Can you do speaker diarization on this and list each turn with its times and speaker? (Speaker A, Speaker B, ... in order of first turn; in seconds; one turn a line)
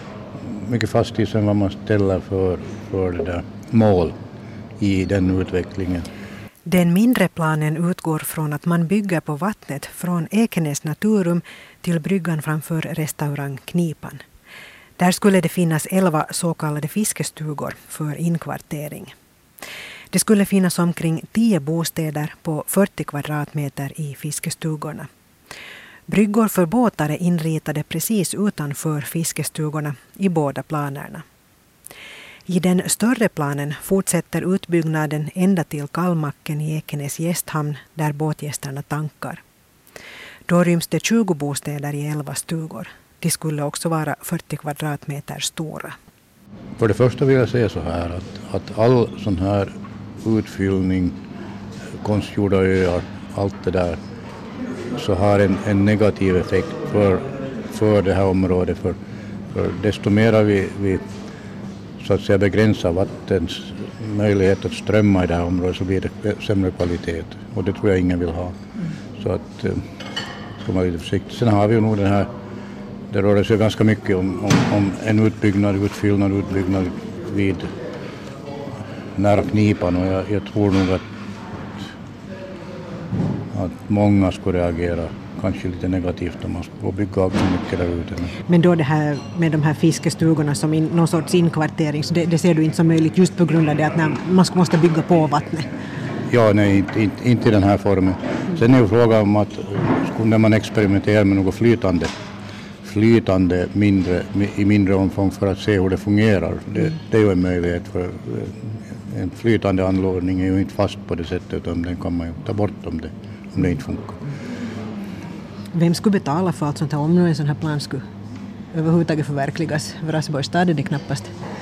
Speaker A: 0.5-4.2
Speaker A: 4.8-6.1
Speaker B: 6.7-14.2
Speaker B: 15.0-19.1
Speaker B: 20.1-25.1
Speaker B: 26.1-31.2
Speaker B: 32.5-39.4
Speaker B: 40.5-46.0
Speaker A: 46.8-51.2
Speaker A: 52.0-54.0
Speaker A: 55.0-59.0
Speaker A: 59.5-61.0
Speaker A: 62.0-68.6
Speaker A: 69.2-69.8
Speaker A: 70.6-72.3
Speaker A: 73.1-77.7
Speaker A: 79.2-81.0
Speaker A: 83.5-88.4
Speaker B: 88.5-95.7
Speaker A: 96.3-102.1
Speaker A: 102.8-114.2
Speaker B: 115.7-118.0
Speaker B: 118.7-121.3